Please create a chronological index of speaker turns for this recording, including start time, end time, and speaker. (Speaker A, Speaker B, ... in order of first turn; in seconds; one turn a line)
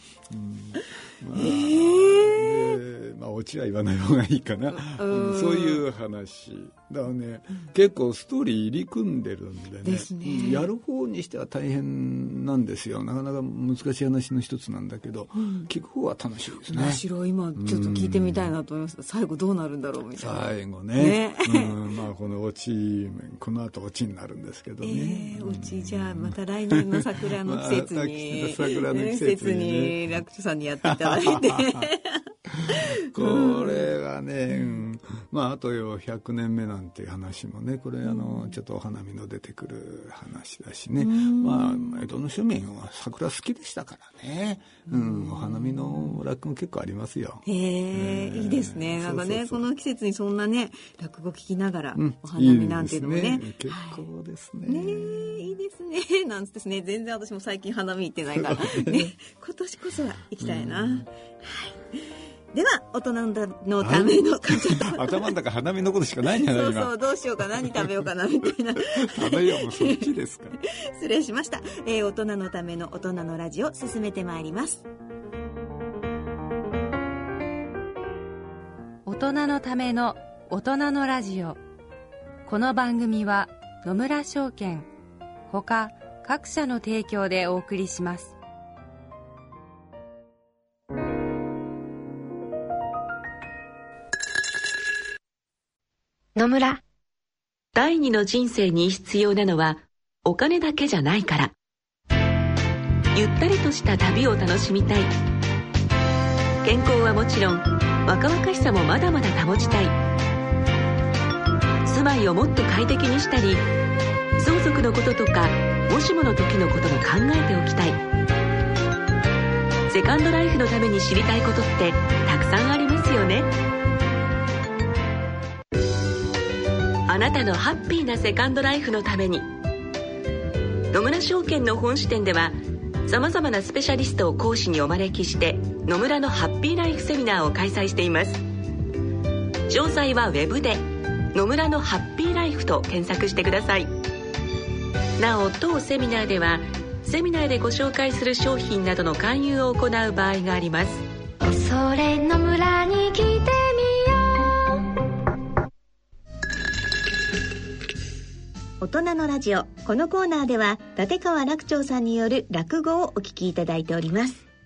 Speaker A: 0.3-17.0
Speaker B: 1.3-2.8
Speaker B: 4.7-5.8
Speaker B: 9.8-10.7
Speaker B: 15.4-15.7
Speaker B: 16.6-20.4
Speaker A: 17.6-18.5
Speaker A: 20.1-30.1
Speaker B: 20.9-21.8
Speaker B: 24.8-33.9
Speaker A: 30.8-31.9
Speaker A: 32.7-49.7
Speaker B: 34.5-34.8
Speaker B: 38.0-38.5
Speaker B: 41.0-42.1
Speaker B: 44.9-46.1
Speaker B: 47.4-54.0
Speaker A: 52.0-55.5
Speaker B: 54.6-61.8
Speaker A: 58.3-59.1
Speaker A: 60.4-61.1
Speaker B: 62.5-65.3
Speaker A: 63.8-67.9
Speaker B: 66.2-70.1
Speaker A: 68.8-70.5
Speaker B: 70.7-74.9
Speaker C: 79.0-81.6
Speaker C: 82.4-84.9
Speaker C: 85.5-88.3
Speaker D: 96.3-96.8
Speaker E: 97.7-101.5
Speaker E: 103.1-105.1
Speaker E: 106.6-109.9
Speaker E: 111.8-113.6
Speaker E: 114.4-118.0
Speaker E: 119.9-123.5
Speaker E: 127.1-129.5
Speaker E: 130.9-138.4
Speaker E: 139.7-144.0
Speaker E: 145.2-151.0
Speaker D: 151.4-154.8
Speaker B: 158.8-164.4